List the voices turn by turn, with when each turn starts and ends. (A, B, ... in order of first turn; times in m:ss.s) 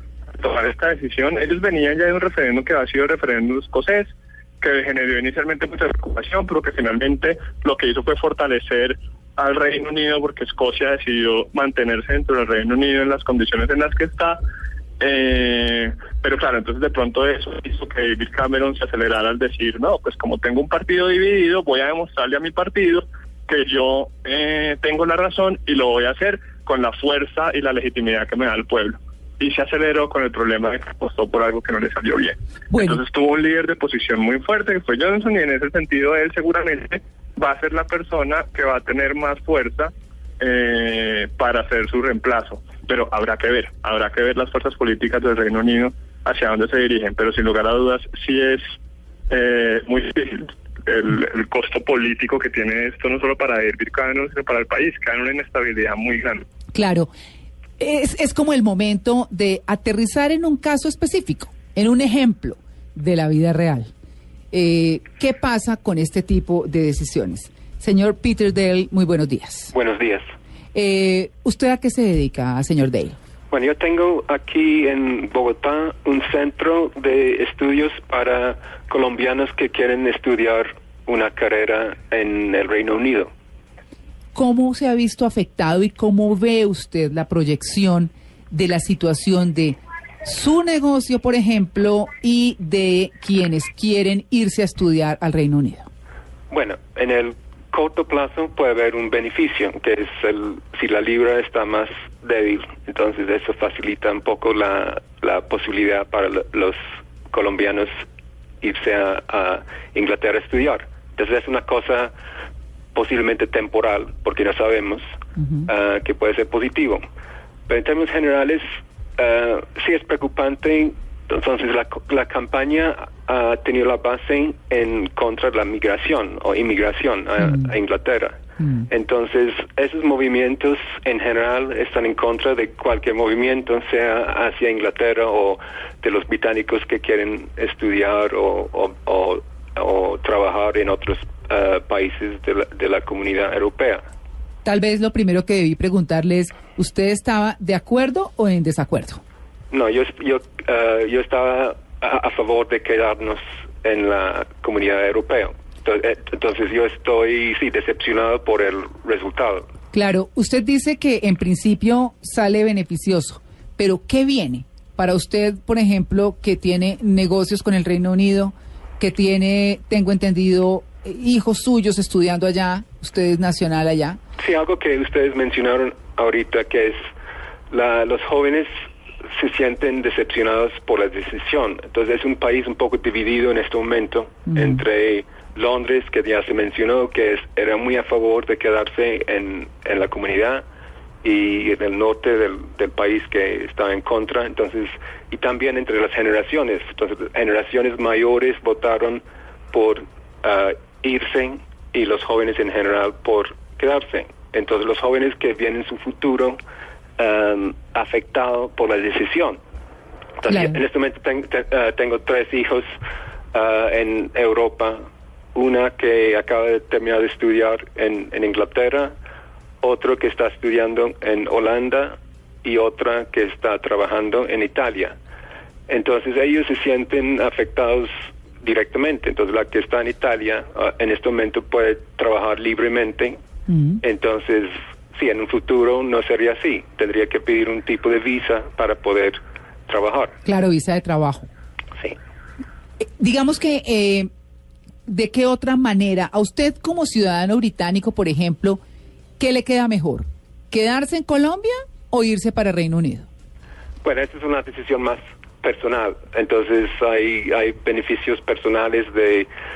0:00.4-0:14.4 A
0:15.0-0:48.7 A
0:32.7-0:33.0 B
0:49.3-0:56.4 A
0:56.7-0:57.1 B
0:57.8-1:03.9 B
1:04.5-1:09.7 B
1:09.7-1:10.3 C
1:10.7-1:13.2 B
1:13.5-1:23.3 C
1:24.3-1:35.9 B
1:36.5-1:48.0 C
1:48.6-1:52.1 C
1:52.9-1:55.0 C
1:55.4-1:55.7 B
1:55.7-1:57.0 C
1:57.7-1:58.6 C
1:59.2-2:24.0 C
2:07.4-2:07.7 B
2:24.6-2:29.2 B
2:29.7-2:39.7 C
2:39.9-2:54.2 B
2:54.4-2:57.1 C
2:57.7-3:10.6 C
3:04.5-3:04.8 B
3:11.2-3:19.2 C
3:19.7-3:26.6 C
3:27.2-3:29.6 C
3:30.4-3:32.9 C
3:30.5-3:30.7 B
3:33.5-3:35.0 C
3:35.5-3:39.1 C
3:39.8-3:45.1 C
3:45.9-3:53.4 C
3:53.7-3:54.0 B
3:54.0-4:00.3 C
4:00.4-4:01.5 B
4:03.2-4:04.3 B
4:05.0-4:08.8 B
4:09.4-4:13.3 B
4:14.0-4:19.5 C